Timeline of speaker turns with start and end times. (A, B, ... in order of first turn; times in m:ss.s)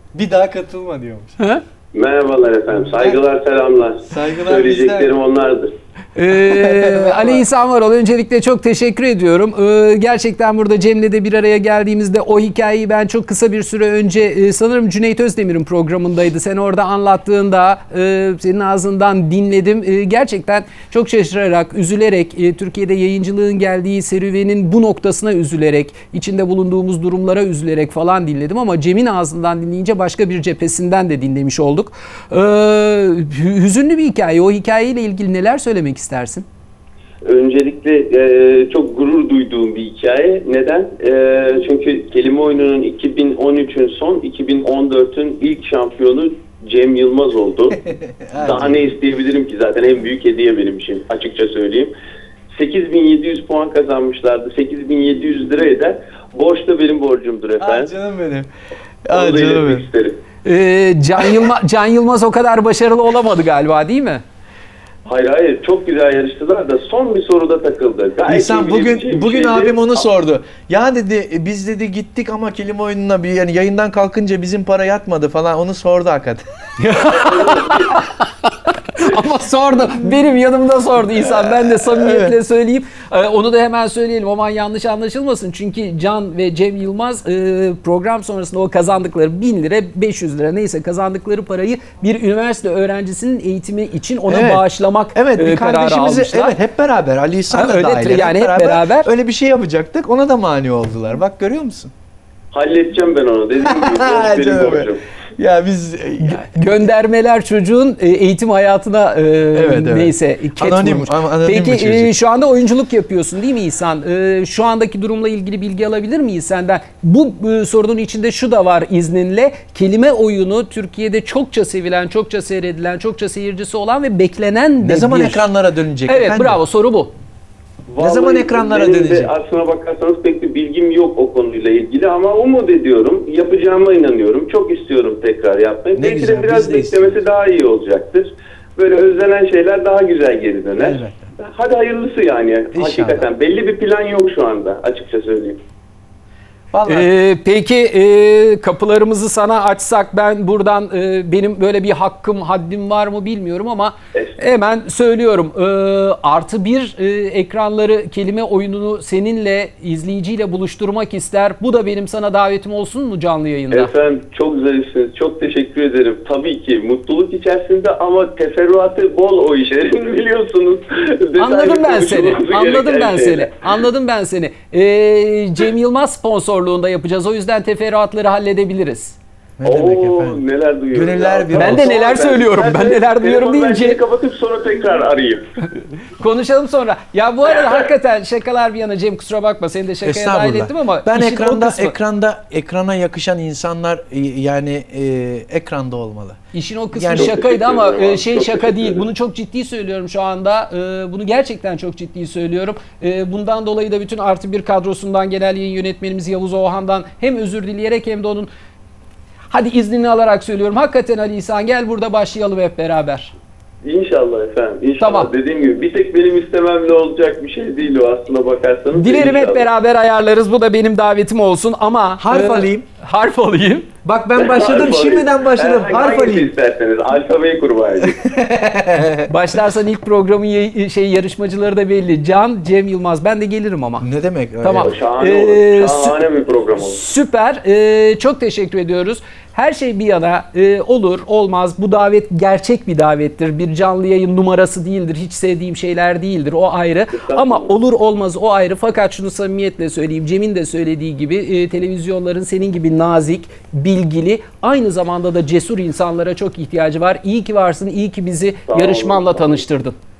0:00.1-0:01.3 A
0:01.9-0:05.7 B
0:04.1-0:05.1 A
0:06.1-0:36.4 C
0:06.4-0:07.4 A
0:37.2-0:47.8 B
0:47.8-0:48.8 A
0:48.4-0:51.9 B
0:52.5-0:57.9 B
0:57.6-0:58.5 A
0:59.0-0:59.8 A
0:59.1-1:00.1 B
1:00.4-1:04.2 C
1:05.0-1:10.0 B
1:08.3-1:16.4 A
1:16.8-1:36.6 C
1:17.0-1:18.0 B
1:21.2-1:22.4 A
1:34.3-1:41.9 A
1:37.5-1:39.1 C
1:42.5-1:45.0 B
1:43.6-1:46.6 A
1:46.2-2:05.4 C
1:49.5-1:52.1 A
2:04.8-2:06.6 A
2:06.1-2:07.1 C
2:07.9-2:25.6 B
2:08.0-2:09.3 A
2:16.0-2:17.2 A
2:20.8-2:21.3 A
2:22.7-2:23.3 A
2:26.7-2:27.1 A
2:26.8-2:43.9 C
2:43.7-2:53.6 B
2:51.4-2:59.2 C
2:59.6-3:00.4 A
2:59.6-3:05.4 B
3:00.9-3:01.9 A
3:01.5-3:04.0 C
3:06.1-3:11.9 C
3:07.5-3:07.9 B
3:10.0-3:16.4 A
3:16.5-3:28.5 C
3:16.9-3:17.3 A
3:17.1-3:19.1 B
3:29.5-3:33.3 C
3:33.8-3:39.7 B
3:35.0-3:35.3 C
3:38.9-3:43.9 C
3:42.2-3:42.8 A
3:44.0-3:46.5 A
3:44.4-3:48.2 B
3:48.0-3:49.3 A
3:49.3-3:54.0 C
3:54.0-3:54.9 A
3:54.6-3:56.1 C
3:54.8-3:57.0 B
3:56.8-4:19.9 C
4:07.1-4:07.7 B
4:18.7-4:19.6 B